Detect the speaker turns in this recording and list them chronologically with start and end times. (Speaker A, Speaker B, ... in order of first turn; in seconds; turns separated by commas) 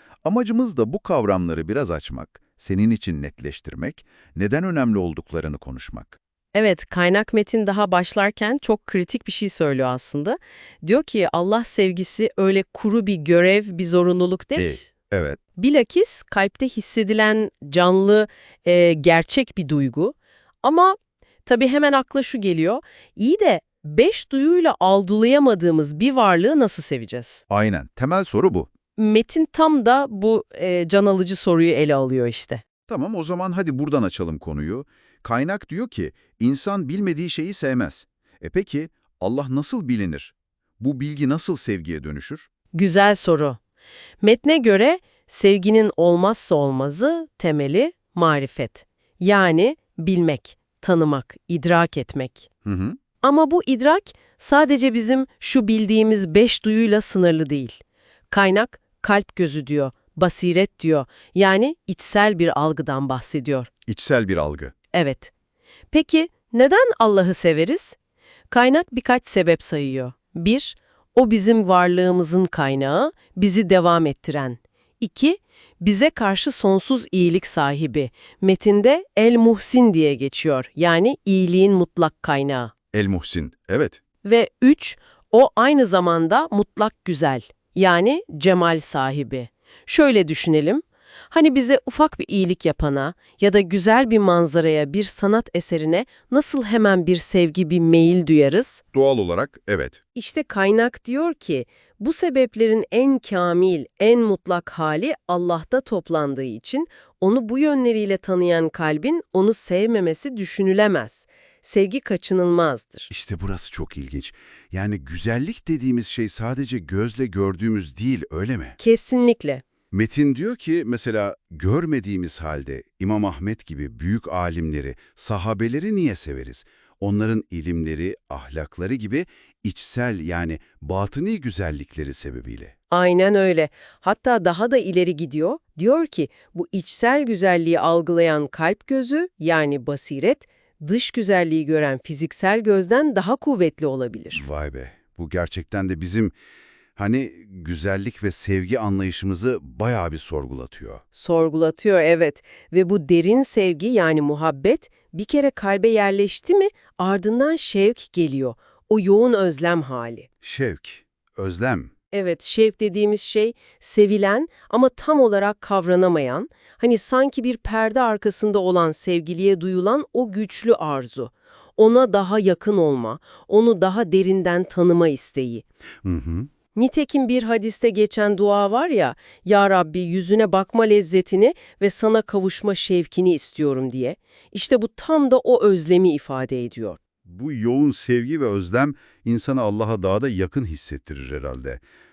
Speaker A: 0.2-6.2, Speaker B: 6.5-14.9, Speaker A: 14.6-15.4, Speaker B: 15.6-27.4, Speaker A: 27.5-28.7, Speaker B: 29.0-32.6, Speaker A: 32.9-42.5, Speaker B: 42.7-43.6, Speaker B: 44.2-52.5, Speaker A: 52.6-53.0, Speaker B: 53.2-63.7, Speaker A: 63.9-64.7, Speaker B: 64.9-65.3, Speaker B: 65.9-68.0, Speaker B: 68.5-82.7, Speaker A: 82.9-84.0, Speaker B: 84.2-98.8, Speaker A: 98.9-100.0, Speaker B: 100.1-113.1, Speaker A: 113.1-118.8, Speaker B: 118.8-119.6, Speaker A: 119.9-132.7, Speaker B: 132.9-144.4, Speaker A: 144.3-146.3, Speaker A: 146.9-151.0, Speaker B: 151.1-160.3, Speaker A: 160.4-161.9, Speaker B: 162.1-175.6, Speaker A: 176.0-176.5, Speaker B: 176.8-187.0, Speaker A: 187.2-191.8